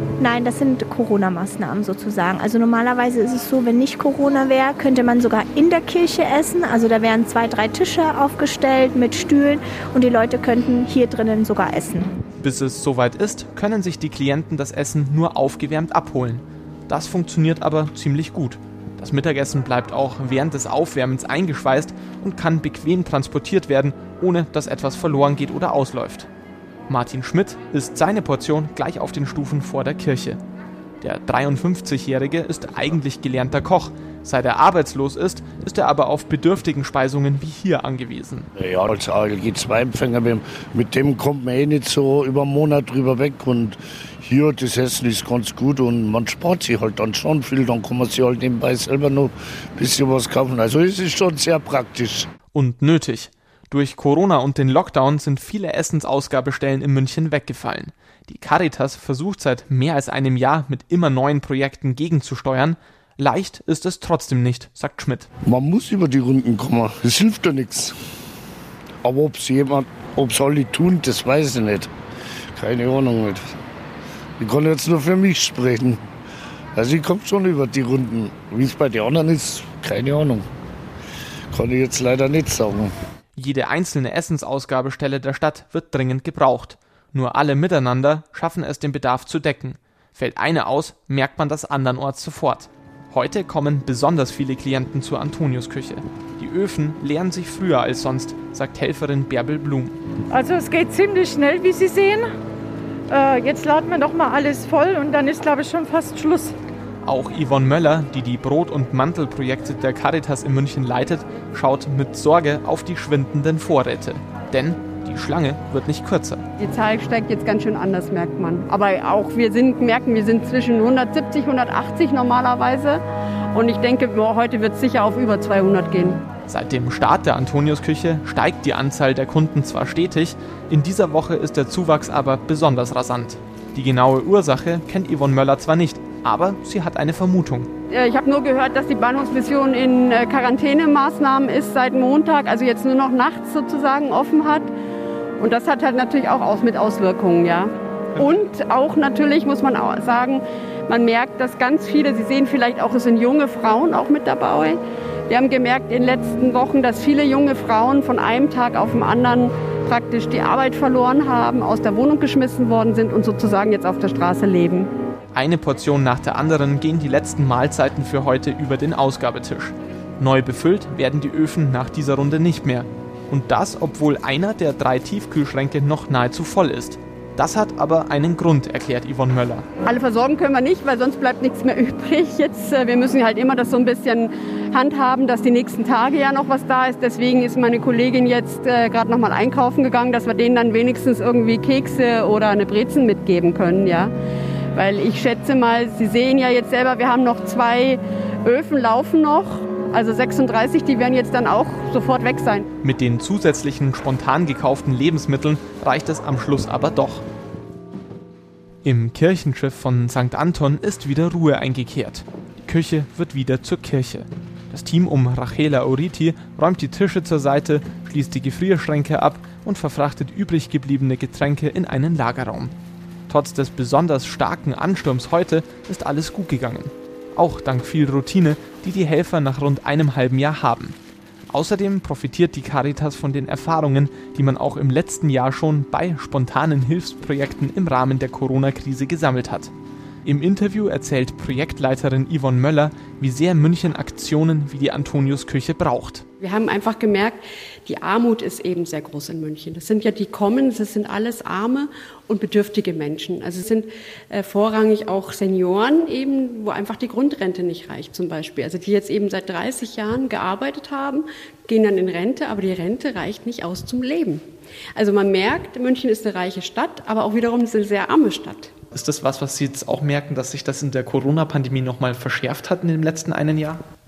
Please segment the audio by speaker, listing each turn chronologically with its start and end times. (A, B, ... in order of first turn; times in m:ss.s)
0:00.2-0:12.2 A
0:12.4-0:26.3 B
0:26.9-0:30.4 B
0:31.0-0:38.5 B
0:38.6-0:52.3 C
0:52.5-1:05.3 B
1:05.5-1:08.0 C
1:09.0-1:11.9 C
1:12.6-1:13.4 C
1:14.4-1:16.0 C
1:16.8-1:20.5 C
1:21.5-1:22.9 C
1:23.4-1:40.0 B
1:40.3-1:42.3 D
1:43.1-1:46.6 D
1:47.0-1:56.4 B
1:56.6-2:03.0 E
2:03.5-2:06.2 E
2:06.5-2:17.7 B
2:17.9-2:24.7 E
2:25.4-2:34.7 E
2:34.3-2:34.7 F
2:35.3-2:44.7 E
2:45.3-2:59.7 B
2:59.9-3:14.1 E
3:14.8-3:22.6 E
3:22.8-3:27.3 B
3:28.8-3:42.7 B
3:43.3-3:51.0 B
3:51.5-3:59.7 B
4:00.2-4:06.2 B
4:06.4-4:24.4 F
4:25.0-4:28.7 F
4:28.9-4:33.8 B